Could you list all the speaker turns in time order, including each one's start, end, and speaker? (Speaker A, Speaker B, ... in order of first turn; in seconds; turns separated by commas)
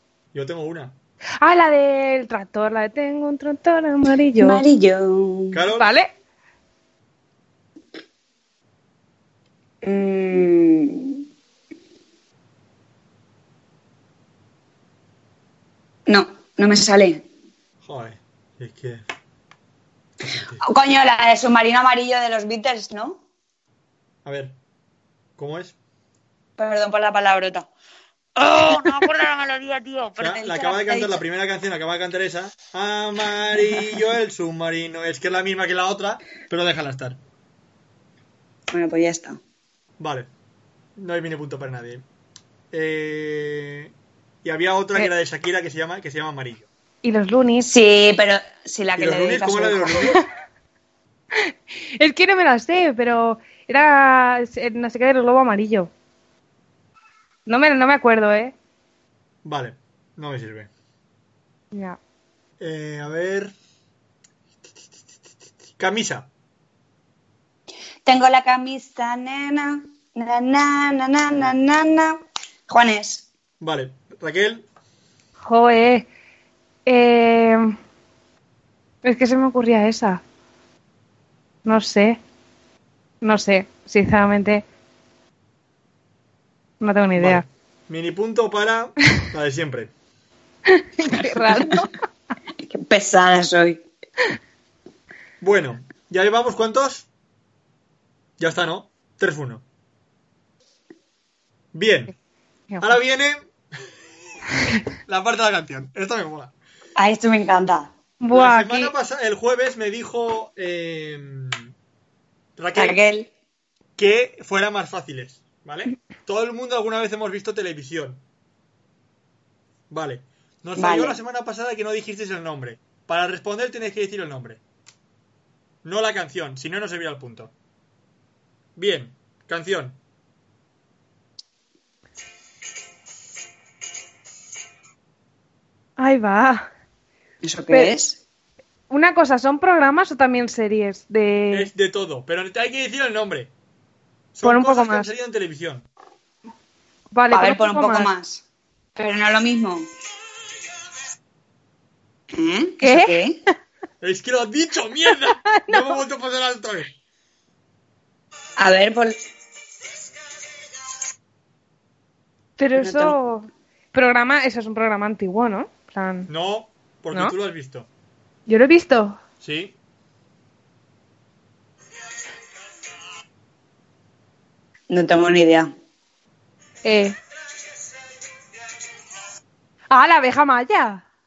Speaker A: 0.3-1.0, Speaker B: 1.4-4.6, Speaker C: 4.4-5.6, Speaker A: 5.5-5.9, Speaker B: 5.8-6.1, Speaker C: 9.8-11.2, Speaker C: 16.1-17.2, Speaker A: 17.8-19.0, Speaker A: 20.2-20.6, Speaker C: 20.6-23.2, Speaker A: 24.2-24.6, Speaker A: 25.4-25.8, Speaker C: 26.6-27.7, Speaker C: 28.4-31.2, Speaker A: 30.2-37.2, Speaker C: 38.7-39.4, Speaker A: 40.0-40.3, Speaker A: 41.0-42.0, Speaker A: 42.7-43.9, Speaker A: 44.4-46.7, Speaker B: 47.0-47.7, Speaker C: 47.6-50.2, Speaker A: 49.0-50.2, Speaker B: 51.4-55.9, Speaker B: 57.5-58.5, Speaker A: 59.4-60.7, Speaker B: 61.7-62.0, Speaker A: 62.6-63.5, Speaker A: 65.8-66.3, Speaker C: 68.0-73.3, Speaker A: 73.6-74.7, Speaker B: 75.4-76.1, Speaker B: 76.9-77.7, Speaker B: 79.0-80.2, Speaker B: 81.7-82.2, Speaker B: 83.2-84.6, Speaker B: 86.8-87.4, Speaker A: 87.2-89.9, Speaker B: 90.7-91.9, Speaker C: 92.6-93.8, Speaker A: 95.4-97.1, Speaker A: 98.4-99.6, Speaker A: 101.7-102.1, Speaker A: 102.8-103.5, Speaker A: 105.0-106.5, Speaker C: 107.0-107.9, Speaker B: 108.2-108.9, Speaker A: 108.3-111.7, Speaker A: 112.6-113.0, Speaker C: 112.7-113.3, Speaker A: 114.0-118.2, Speaker A: 119.9-124.6, Speaker C: 120.8-121.2, Speaker A: 125.8-127.5, Speaker A: 128.8-130.0, Speaker B: 136.0-136.7, Speaker C: 137.4-138.2, Speaker B: 138.9-141.7, Speaker A: 141.5-143.5, Speaker A: 144.3-145.9, Speaker B: 144.4-145.1, Speaker B: 147.1-148.1, Speaker C: 147.3-148.4, Speaker C: 149.0-149.9, Speaker C: 152.3-153.4, Speaker B: 152.8-153.2, Speaker A: 154.0-156.9, Speaker B: 155.5-156.0, Speaker C: 158.6-159.2, Speaker B: 162.6-166.3, Speaker C: 162.7-163.2, Speaker A: 166.3-167.9, Speaker B: 168.5-169.2, Speaker A: 169.4-169.8, Speaker C: 174.9-175.7, Speaker B: 176.8-177.2, Speaker B: 179.9-181.0